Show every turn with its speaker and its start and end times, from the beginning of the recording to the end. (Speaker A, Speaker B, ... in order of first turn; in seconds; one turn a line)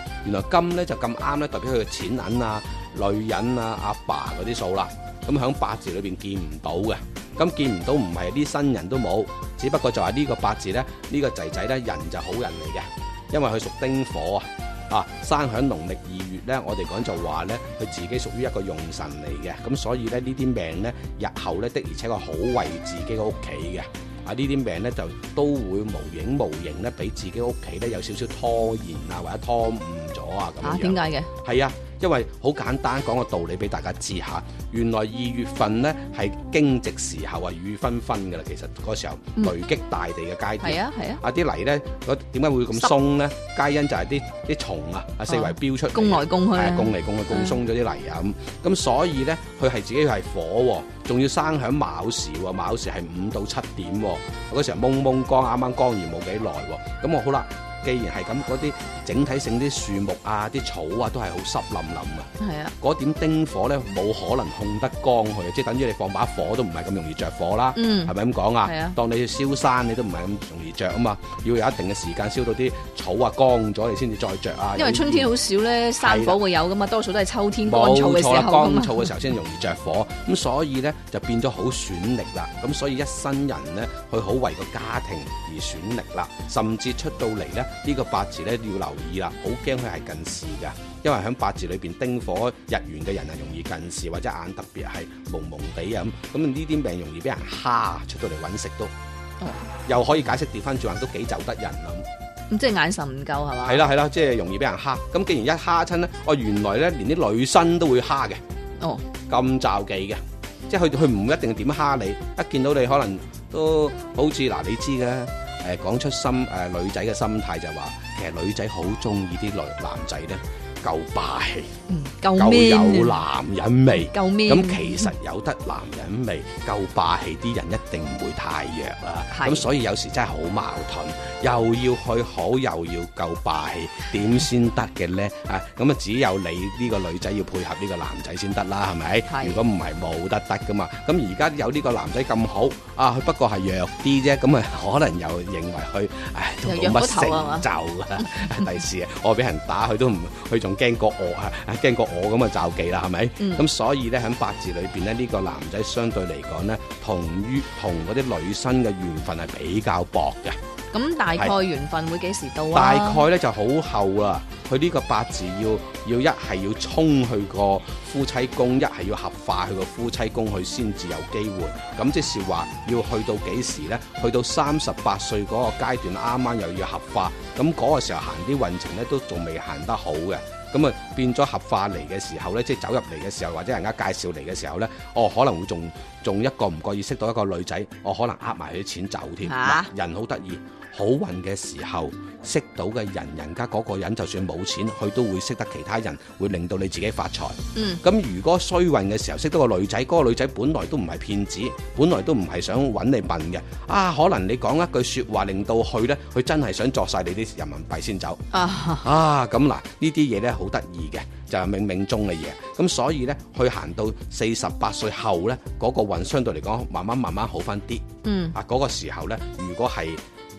Speaker A: 0.2-62.3
Speaker B: 30.6-31.3
Speaker B: 40.6-41.2
Speaker B: 45.3-47.6
Speaker B: 62.4-62.7
Speaker A: 62.8-75.3
Speaker B: 67.8-68.1
Speaker B: 68.6-69.0
Speaker B: 74.8-79.1
Speaker A: 76.0-76.4
Speaker A: 77.6-98.9
Speaker B: 99.4-99.7
Speaker A: 99.8-102.0
Speaker B: 102.5-103.8
Speaker A: 103.6-108.4
Speaker B: 108.8-109.0
Speaker A: 109.3-121.7
Speaker B: 121.9-123.2
Speaker A: 122.4-160.6
Speaker B: 124.0-125.1
Speaker B: 129.3-129.7
Speaker B: 139.3-139.6
Speaker B: 146.6-147.7
Speaker B: 153.4-153.6
Speaker B: 160.9-163.2
Speaker A: 162.7-208.4
Speaker B: 189.4-189.9
Speaker B: 197.8-198.0
Speaker B: 208.5-209.1
Speaker A: 209.0-220.2
Speaker B: 218.2-218.6